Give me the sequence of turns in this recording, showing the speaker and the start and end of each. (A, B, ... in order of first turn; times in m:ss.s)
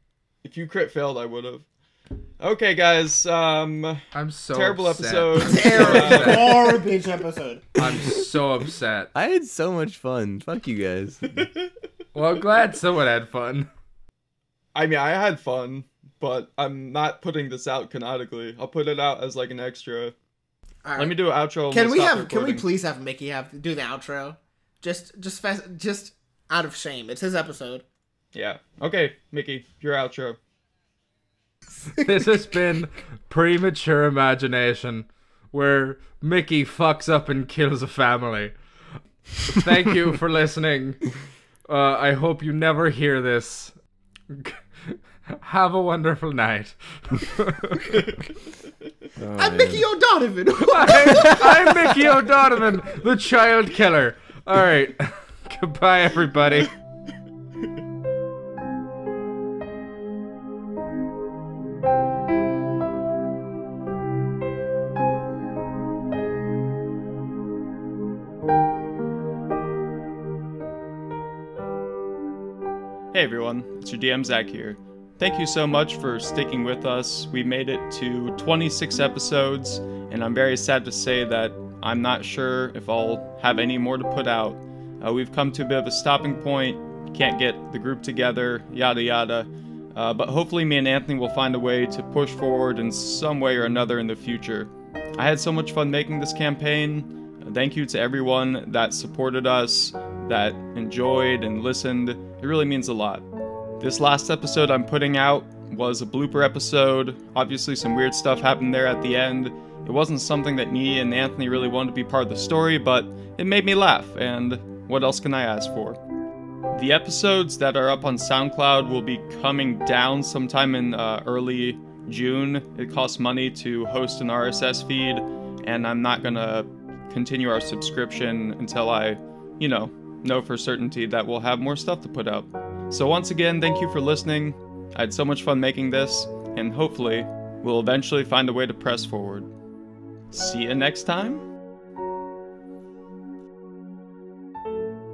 0:00.4-0:01.6 A
0:02.4-0:06.6 A
0:04.1-0:06.6 B
0:05.4-0:07.7 C
0:07.8-0:09.1 B
0:09.1-0:11.4 D
0:11.3-0:11.7 A
0:12.1-0:13.7 B
0:14.7-0:20.1 A
0:20.8-0:21.1 C
0:21.0-0:22.7 A
0:21.7-0:27.8 C
0:28.3-0:30.4 A
0:31.9-0:38.5 B
0:32.0-0:32.3 C
0:39.4-0:41.0 B
0:41.7-0:43.7 B
0:44.3-0:48.0 B
0:49.2-0:49.8 D
0:49.4-0:52.1 C
0:50.6-0:56.7 B
1:13.1-1:43.3 A
1:43.8-1:56.0 A
1:56.7-2:19.5 A
2:20.3-2:21.4 A